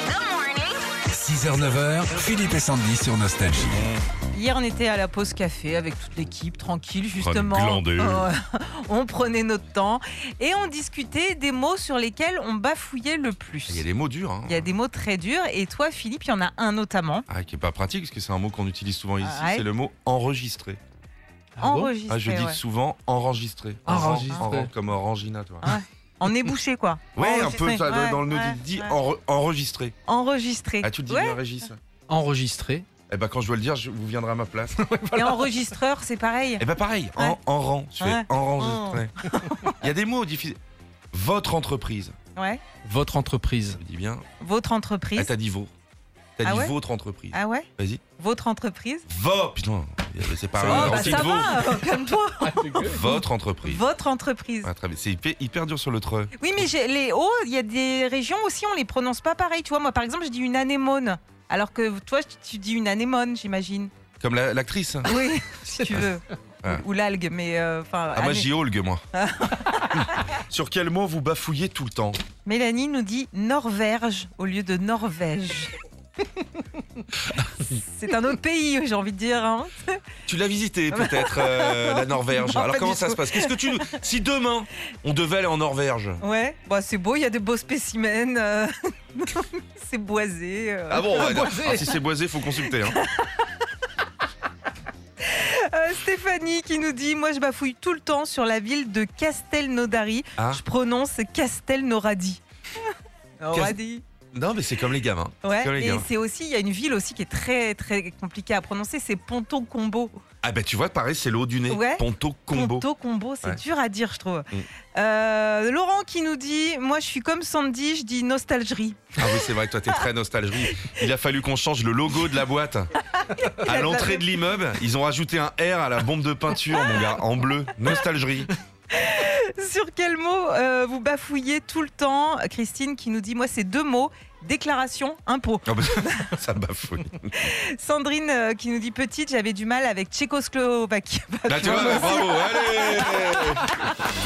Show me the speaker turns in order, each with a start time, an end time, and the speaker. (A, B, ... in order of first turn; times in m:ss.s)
0:01.1-0:03.9 A
0:03.7-0:04.0 B
0:04.3-0:13.9 C
0:07.2-0:08.3 B
0:13.7-0:14.7 B
0:14.5-0:17.3 C
0:17.3-0:20.8 B
0:19.2-0:19.7 C
0:21.6-0:21.9 D
0:21.6-0:22.6 C
0:22.1-0:25.7 B
0:23.9-0:24.7 D
0:25.6-0:29.0 C
0:27.2-0:30.0 B
0:30.1-0:31.4 C
0:30.8-0:31.8 B
0:32.1-0:32.9 D
0:33.1-0:34.8 B
0:34.8-0:35.6 D
0:35.1-0:36.6 C
0:36.6-0:39.2 B
0:38.0-0:39.8 C
0:39.7-0:40.6 B
0:41.1-0:42.2 B
0:42.4-0:42.7 C
0:42.8-0:43.8 D
0:43.8-0:44.2 B
0:44.4-0:45.3 C
0:45.2-0:45.7 B
0:46.4-0:48.0 B
0:46.4-0:46.8 C
0:47.3-0:49.1 C
0:49.1-0:51.6 B
0:50.6-0:53.0 D
0:50.6-0:54.7 C
0:52.8-0:53.8 B
0:54.6-0:56.3 B
0:56.4-1:03.9 C
1:04.2-1:05.1 B
1:05.0-1:08.5 C
1:05.9-1:06.8 B
1:08.1-1:09.0 B
1:09.1-1:10.4 C
1:09.8-1:12.2 B
1:12.4-1:15.8 C
1:17.7-1:20.0 C
1:20.3-1:26.2 B
1:20.9-1:24.0 C
1:26.2-1:32.0 C
1:30.9-1:33.0 B
1:32.7-1:33.7 C
1:35.2-1:44.0 C
1:40.4-1:40.6 B
1:43.5-1:43.8 B
1:44.3-1:46.1 B
1:45.4-1:50.2 C
1:50.4-1:52.8 B
1:51.7-2:00.0 C
1:59.2-2:08.5 B
2:03.1-2:04.4 C
2:08.9-2:16.3 C
2:15.7-2:17.4 B
2:17.3-2:23.9 C
2:21.5-2:23.7 B